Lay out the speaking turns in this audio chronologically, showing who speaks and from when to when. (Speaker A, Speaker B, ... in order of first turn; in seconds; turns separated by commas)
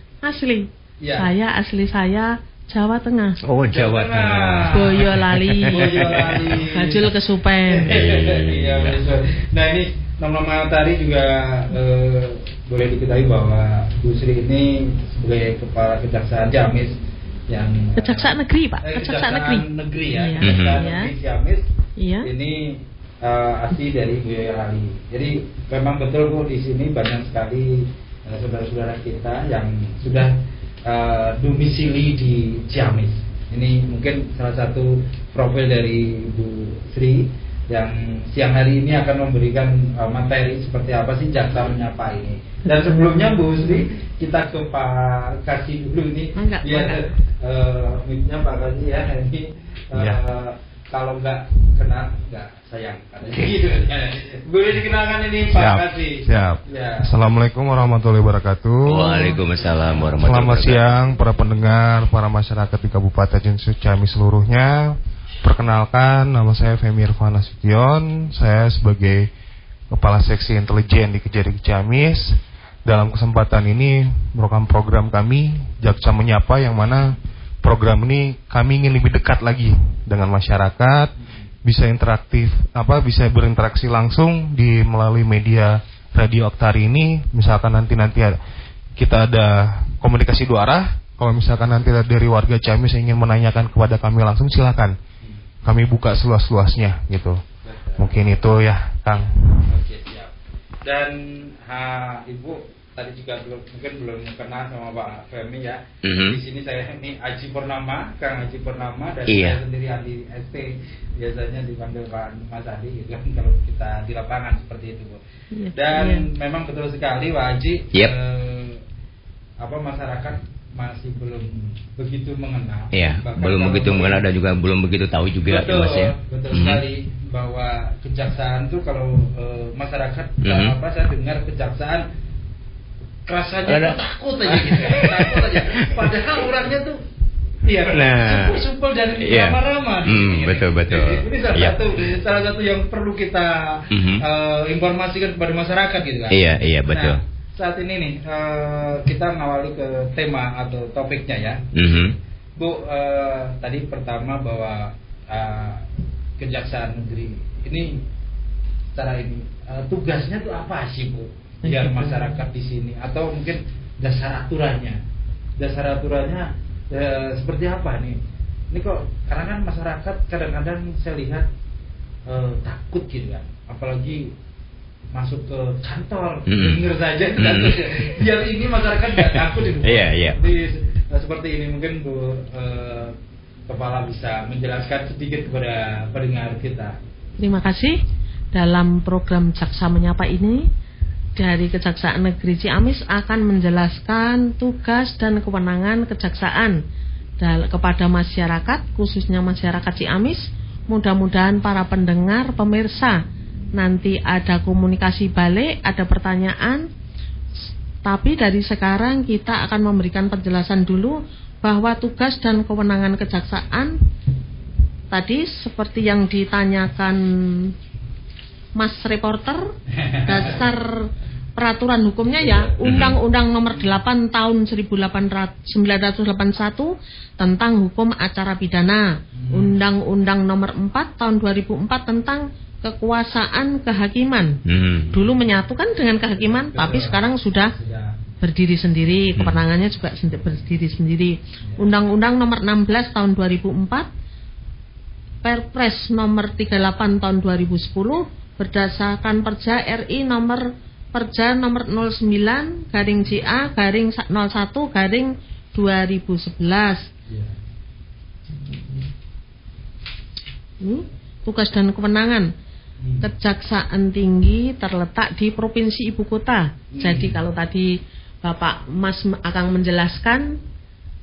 Speaker A: 0.2-3.4, Speaker B: 1.0-1.3, Speaker C: 3.5-6.5, Speaker B: 3.7-5.0, Speaker A: 4.7-8.0, Speaker B: 5.6-7.1, Speaker B: 7.7-17.0, Speaker C: 7.9-9.0, Speaker B: 17.5-21.7, Speaker A: 18.0-21.1, Speaker C: 20.4-20.8, Speaker A: 22.0-22.3, Speaker B: 22.2-30.4, Speaker B: 30.9-57.1, Speaker A: 42.7-43.8, Speaker A: 46.4-47.0, Speaker D: 55.5-59.3, Speaker C: 58.9-60.9, Speaker B: 59.6-60.1, Speaker D: 60.2-69.3, Speaker D: 69.9-81.1, Speaker D: 81.7-88.3, Speaker D: 89.0-94.9, Speaker D: 95.7-97.4, Speaker B: 97.6-98.1, Speaker D: 98.0-99.3, Speaker B: 99.7-100.3, Speaker B: 100.8-115.2, Speaker C: 106.0-106.4, Speaker C: 109.3-109.6, Speaker A: 115.5-116.3, Speaker B: 115.7-118.8, Speaker B: 119.6-124.3, Speaker C: 122.9-126.8, Speaker B: 125.5-132.1, Speaker C: 130.4-130.8, Speaker B: 133.3-137.0, Speaker C: 133.7-136.4, Speaker B: 137.6-151.6, Speaker C: 137.9-138.6, Speaker C: 139.2-141.8, Speaker C: 143.9-144.2, Speaker C: 146.3-147.2, Speaker C: 151.8-152.1, Speaker B: 152.6-155.8, Speaker B: 156.4-158.0, Speaker B: 158.9-165.0, Speaker A: 161.7-162.4, Speaker B: 165.6-168.2, Speaker B: 168.7-171.5, Speaker B: 172.3-174.3, Speaker B: 175.1-183.2, Speaker C: 176.5-176.8, Speaker C: 177.4-178.0, Speaker C: 179.2-180.4, Speaker B: 183.7-187.0, Speaker A: 187.4-188.0, Speaker A: 188.5-190.7, Speaker A: 191.4-196.8, Speaker A: 197.4-203.2, Speaker A: 203.8-206.9, Speaker A: 208.0-213.9, Speaker A: 215.1-217.7, Speaker A: 218.8-219.6, Speaker B: 219.9-220.7, Speaker A: 220.3-220.9, Speaker A: 221.6-234.6, Speaker B: 222.3-222.7, Speaker C: 222.9-223.2, Speaker B: 229.3-229.8, Speaker C: 234.7-235.1, Speaker A: 235.1-237.7, Speaker B: 236.4-238.2, Speaker A: 238.4-244.1, Speaker A: 245.4-257.1, Speaker B: 257.3-257.6, Speaker A: 258.6-259.1, Speaker A: 260.8-262.5, Speaker B: 263.0-263.3, Speaker A: 263.2-267.9, Speaker B: 266.9-267.4, Speaker A: 268.4-270.6